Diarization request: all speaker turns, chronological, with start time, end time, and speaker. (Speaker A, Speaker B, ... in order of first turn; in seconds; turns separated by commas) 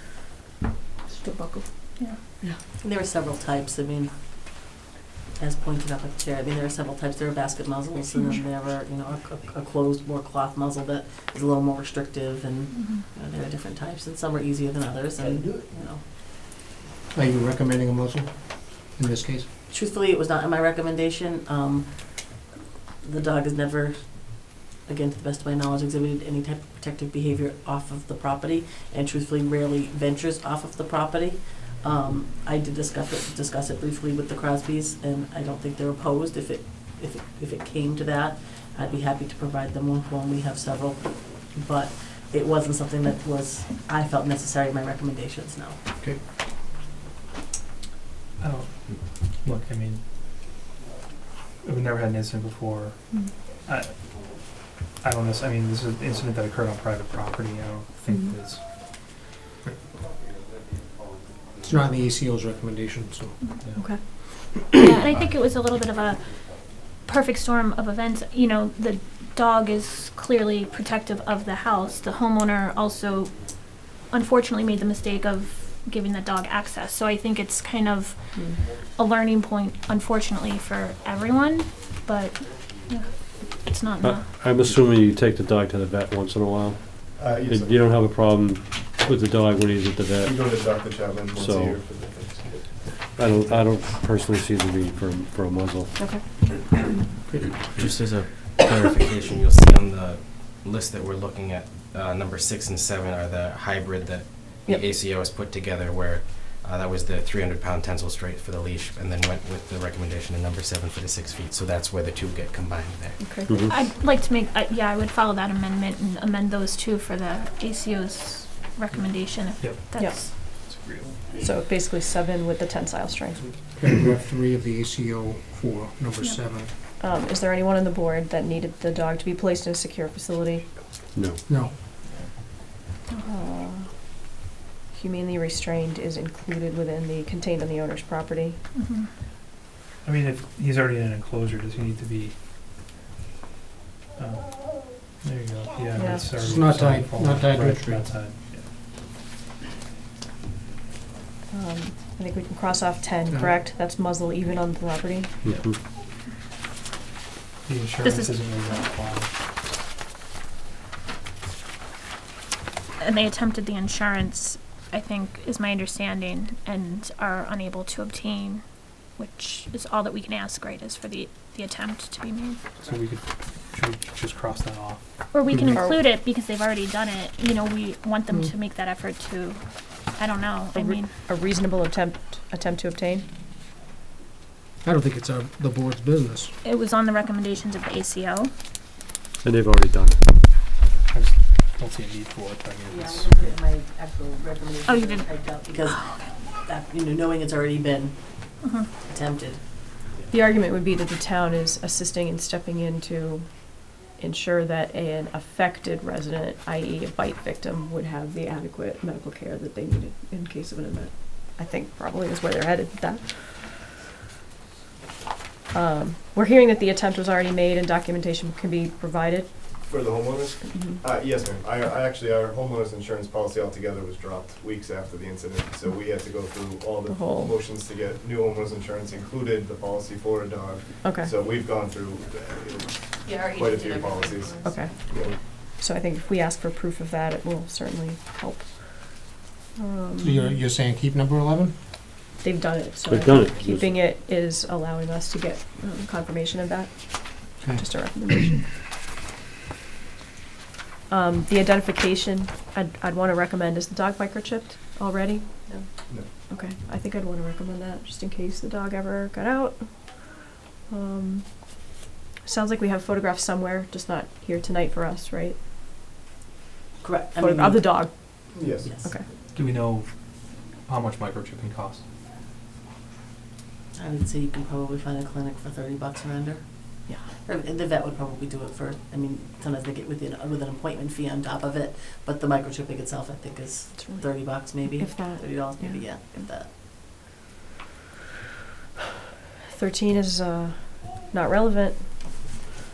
Speaker A: 1.2-1.6, Speaker B: 2.4-4.1, Speaker B: 5.4-16.0, Speaker C: 12.7-13.0, Speaker D: 17.1-19.5, Speaker B: 19.7-22.4, Speaker B: 23.0-45.8, Speaker E: 48.4-50.0, Speaker E: 51.6-53.1, Speaker E: 53.6-58.6, Speaker D: 61.6-63.4, Speaker E: 63.6-63.9, Speaker A: 63.8-64.0, Speaker C: 64.5-84.3, Speaker F: 84.0-90.6, Speaker G: 87.0-87.7, Speaker G: 90.2-93.5, Speaker F: 91.3-91.8, Speaker F: 93.1-96.2, Speaker A: 96.0-96.8, Speaker D: 97.3-97.5, Speaker H: 97.6-113.2, Speaker A: 113.2-113.7, Speaker F: 113.5-113.7, Speaker C: 113.7-120.3, Speaker E: 119.6-121.2, Speaker A: 120.0-120.2, Speaker A: 121.4-123.6, Speaker D: 123.7-126.7, Speaker A: 127.0-130.8, Speaker F: 131.1-131.4, Speaker D: 131.5-131.7, Speaker A: 133.2-134.2, Speaker A: 134.9-138.6, Speaker C: 138.7-139.1, Speaker E: 140.0-142.3, Speaker E: 144.2-148.6, Speaker A: 145.9-146.3, Speaker D: 146.4-148.1, Speaker A: 151.5-155.4, Speaker F: 155.4-155.8, Speaker E: 157.7-159.3, Speaker C: 158.0-158.9, Speaker C: 163.0-168.6, Speaker C: 169.2-172.6, Speaker E: 172.8-175.0, Speaker C: 175.3-179.6, Speaker A: 175.7-176.0, Speaker C: 180.1-181.1, Speaker A: 180.7-183.3, Speaker D: 184.8-186.5, Speaker C: 186.6-188.5, Speaker F: 189.4-190.2, Speaker E: 191.1-193.4, Speaker B: 192.9-199.6, Speaker C: 194.9-196.3, Speaker C: 198.6-198.9, Speaker A: 200.3-213.8, Speaker A: 215.7-219.7, Speaker G: 219.9-235.3, Speaker A: 220.6-221.0, Speaker A: 227.1-227.5, Speaker A: 231.0-231.3, Speaker A: 234.6-240.5, Speaker D: 240.2-241.7, Speaker A: 242.4-248.7, Speaker F: 243.1-244.0, Speaker D: 247.6-248.5, Speaker A: 251.1-255.8, Speaker A: 256.5-261.9, Speaker A: 262.4-265.6, Speaker B: 267.0-269.1, Speaker A: 267.4-269.2, Speaker G: 268.5-269.0, Speaker E: 269.5-270.1, Speaker E: 270.9-272.0, Speaker B: 273.9-286.7, Speaker A: 277.1-277.3, Speaker A: 283.9-286.3, Speaker A: 289.7-292.1